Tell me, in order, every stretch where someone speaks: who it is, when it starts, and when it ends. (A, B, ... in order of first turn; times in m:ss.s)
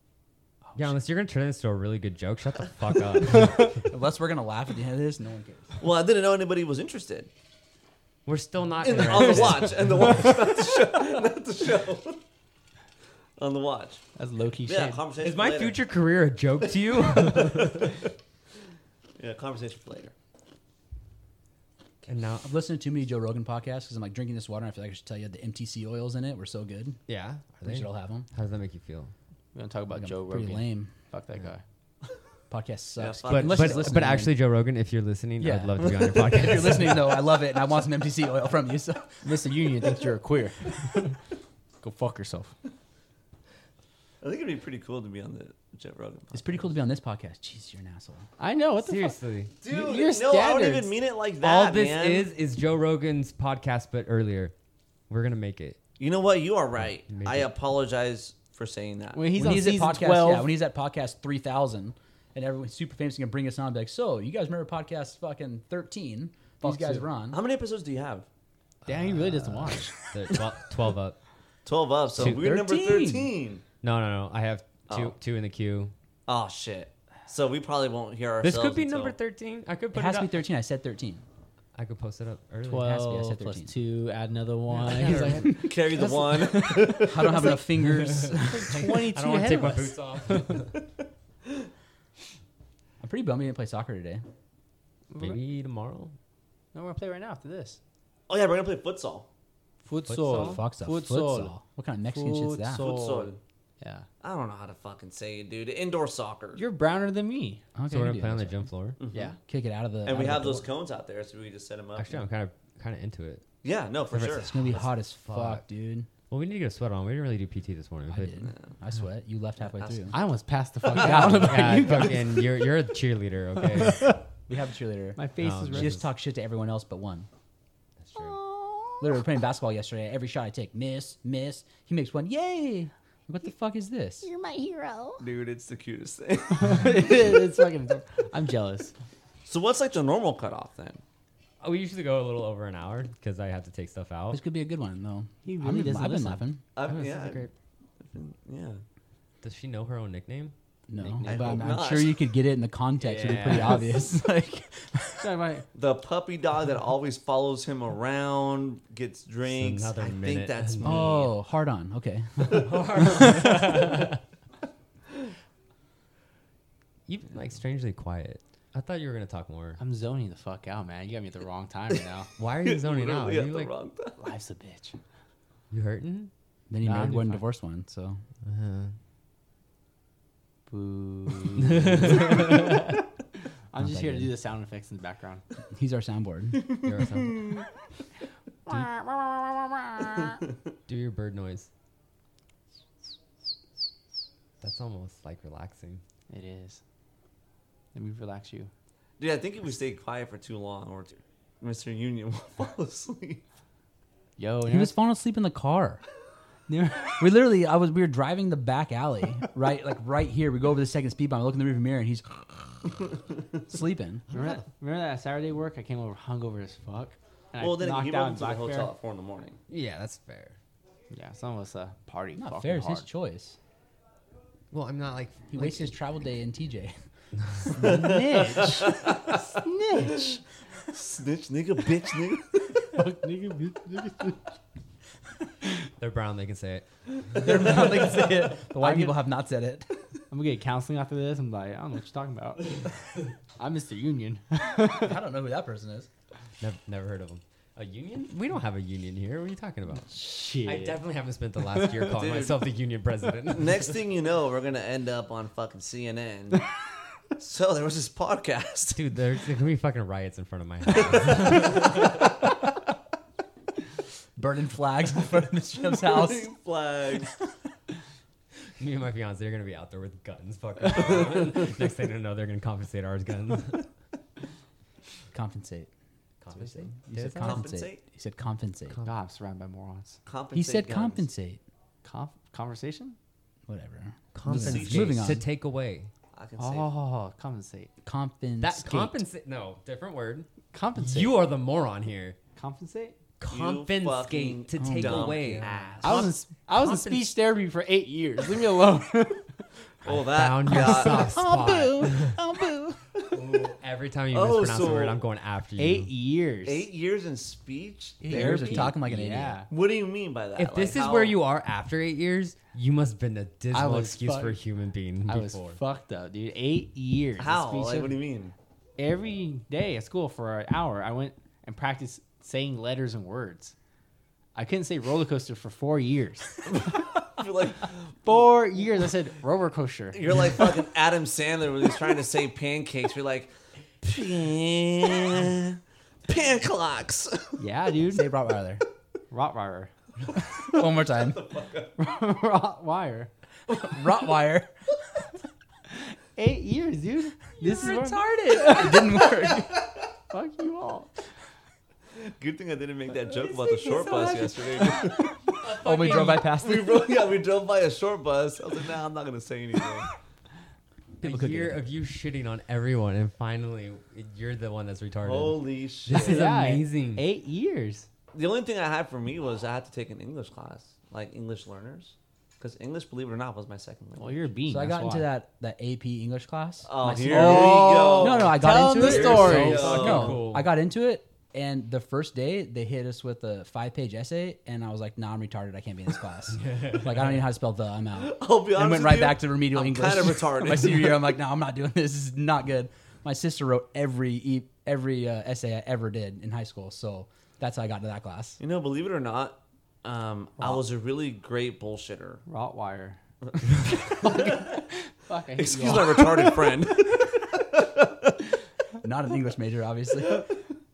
0:00.7-0:03.8 A
0:03.6-0:05.8 B
0:05.8-0:07.3 C
0:08.2-0:09.9 A
0:08.8-0:12.2 C
0:13.4-0:14.0 C
0:14.2-0:15.0 D
0:14.6-0:15.8 C
0:15.2-0:18.0 A
0:16.8-0:17.9 C
0:19.2-0:20.1 C
0:22.0-0:22.5 A
0:22.4-0:27.0 B
0:27.1-0:29.1 A
0:27.6-0:28.3 B
0:29.5-0:31.6 D
0:29.9-0:30.9 B
0:32.5-0:34.3 B
0:33.0-0:34.0 C
0:33.3-0:37.1 A
0:35.4-0:39.2 B
0:36.4-0:37.0 C
0:39.2-0:41.2 D
0:41.8-0:42.5 D
0:44.2-0:46.6 C
0:46.3-0:48.3 B
0:48.4-0:50.9 D
0:48.8-0:49.5 A
0:49.6-0:52.3 C
0:51.4-0:54.5 A
0:55.1-0:55.8 A
0:56.0-0:59.2 C
0:57.1-0:57.5 A
0:59.1-1:00.5 D
0:59.3-1:07.4 B
1:06.6-1:07.1 D
1:07.3-1:08.3 C
1:08.8-1:11.2 A
1:08.9-1:09.9 D
1:11.6-1:13.6 C
1:12.2-1:13.3 B
1:13.8-1:15.9 A
1:14.9-1:15.1 C
1:16.3-1:19.1 C
1:18.4-1:20.4 A
1:19.9-1:21.2 B
1:21.7-1:23.0 A
1:22.7-1:27.6 D
1:22.8-1:23.7 B
1:24.7-1:25.6 A
1:25.4-1:27.6 C
1:27.0-1:28.8 B
1:27.8-1:30.7 A
1:28.3-1:30.6 D
1:33.0-1:34.2 B
1:35.1-1:35.4 D
1:35.2-1:36.1 A
1:36.7-1:37.8 D
1:38.3-1:39.2 C
1:39.8-1:44.1 D
1:40.1-1:40.6 A
1:40.2-1:42.9 B
1:42.7-1:43.4 C
1:44.2-1:46.6 C
1:46.5-1:47.6 D
1:47.7-1:48.7 B
1:47.9-1:49.0 A
1:49.0-1:49.4 C
1:49.5-1:50.7 B
1:50.0-1:52.2 C
1:52.0-1:53.5 A
1:53.6-1:54.8 C
1:54.1-1:55.6 A
1:54.3-1:56.1 B
1:56.3-1:58.4 A
1:58.1-2:00.2 B
1:58.4-1:58.8 C
1:59.6-2:00.1 C
2:00.1-2:02.4 D
2:00.8-2:02.2 B
2:01.2-2:04.0 A
2:03.6-2:04.2 D
2:04.5-2:05.2 B
2:05.2-2:06.0 D
2:05.4-2:06.1 A
2:05.7-2:07.3 B
2:08.0-2:08.4 A
2:08.1-2:09.2 E
2:09.0-2:14.3 B
2:14.2-2:15.2 E
2:15.2-2:17.1 C
2:16.5-2:18.9 D
2:19.4-2:21.0 C
2:21.6-2:24.4 A
2:24.3-2:26.6 B
2:25.4-2:26.4 D
2:26.8-2:27.5 C
2:26.8-2:27.5 A
2:28.0-2:28.8 C
2:29.4-2:30.5 A
2:30.9-2:35.3 B
2:31.0-2:31.8 D
2:31.2-2:32.3 C
2:33.0-2:34.0 A
2:35.2-2:35.7 D
2:35.7-2:41.3 C
2:39.5-2:41.1 A
2:40.8-2:44.0 B
2:42.5-2:44.2 A
2:47.1-2:49.8 A
2:49.8-2:52.3 D
2:52.4-2:53.7 A
2:52.6-2:54.2 C
2:54.2-2:55.0 D
2:55.7-2:56.3 A
2:56.7-2:58.2 B
2:56.8-2:57.4 D
2:58.4-2:58.9 A
3:00.7-3:03.0 D
3:01.8-3:02.6 A
3:03.7-3:05.4 D
3:03.8-3:04.3 B
3:05.7-3:06.8 B
3:06.8-3:07.5 A
3:08.7-3:09.4 D
3:10.9-3:11.7 A
3:14.6-3:16.0 A
3:16.3-3:16.8 D
3:17.9-3:18.7 D
3:19.2-3:23.4 C
3:24.4-3:25.0 D
3:24.7-3:26.0 B
3:26.7-3:27.4 D
3:27.2-3:33.0 B
3:33.7-3:34.2 B
3:34.3-3:34.6 A
3:34.3-3:38.9 D
3:37.6-3:39.6 C
3:39.7-3:40.6 A
3:41.1-3:43.1 D
3:42.4-3:43.6 B
3:44.7-3:45.9 A
3:45.5-3:46.9 B
3:47.7-3:48.9 B
3:47.7-3:49.5 C
3:47.8-3:50.4 D
3:50.9-3:52.7 C
3:52.9-3:54.5 D
3:56.0-3:56.8 A
3:57.4-3:59.8 B
3:58.7-3:59.3 D
4:00.3-4:02.9 D
4:03.6-4:05.2 D
4:04.9-4:06.1 B
4:06.6-4:10.1 A
4:10.0-4:11.0 D
4:10.6-4:14.0 A
4:12.1-4:12.6 C
4:13.5-4:16.6 C
4:17.4-4:19.0 C
4:18.9-4:22.1 A
4:21.2-4:21.9 C
4:24.4-4:26.5 B
4:26.0-4:27.4 C
4:28.8-4:33.9 A
4:35.3-4:35.9 B
4:36.4-4:37.7 A
4:36.6-4:39.0 B
4:37.4-4:38.0 C
4:38.9-4:39.1 A
4:39.0-4:40.2 D
4:40.2-4:41.3 C
4:40.5-4:41.6 B
4:42.0-4:43.2 D
4:43.7-4:45.4 B
4:44.3-4:46.1 A
4:44.5-4:45.3 C
4:46.3-4:46.9 C
4:46.6-4:47.9 D
4:48.0-4:49.1 B
4:48.6-4:52.4 A
4:50.7-4:51.4 D
4:52.6-4:53.2 D
4:53.4-4:57.3 A
4:53.5-4:56.3 C
4:54.8-4:55.7 B
4:56.0-4:59.6 D
5:00.0-5:01.4 C
5:00.0-5:02.4 A
5:00.8-5:03.0 B
5:03.3-5:06.1 A
5:04.3-5:05.2 C
5:05.8-5:06.9 D
5:06.6-5:08.9 C
5:08.2-5:09.6 B
5:08.3-5:09.7 D
5:09.7-5:11.4 C
5:10.6-5:15.8 A
5:13.7-5:14.6 D
5:15.2-5:18.2 D
5:17.4-5:18.5 C
5:19.0-5:23.7 D
5:24.5-5:26.7 D
5:26.7-5:28.4 C
5:28.2-5:30.6 D
5:30.1-5:37.6 C
5:37.6-5:38.3 D
5:38.1-5:38.8 B
5:39.3-5:39.9 D
5:40.6-5:42.0 C
5:40.6-5:41.4 B
5:42.0-5:43.3 D
5:43.8-5:44.7 B
5:45.9-5:49.3 D
5:47.6-5:49.8 B
5:49.2-5:49.7 C
5:50.3-5:51.1 D
5:52.2-5:55.4 C
5:53.5-5:54.8 D
5:55.6-5:56.5 A
5:55.8-5:57.1 B
5:56.3-6:00.1 C
6:01.2-6:07.2 A
6:01.2-6:01.8 B
6:05.2-6:06.5 C
6:06.1-6:08.1 D
6:08.3-6:14.5 C
6:14.2-6:15.3 D
6:14.7-6:38.6 B
6:16.8-6:20.4 C
6:17.2-6:20.0 D
6:19.3-6:20.7 A
6:26.5-6:27.4 A
6:28.2-6:31.4 C
6:38.6-6:42.4 C
6:42.4-6:43.2 D
6:43.8-6:44.5 C
6:44.2-6:46.5 D
6:45.6-6:48.3 C
6:49.0-6:50.4 B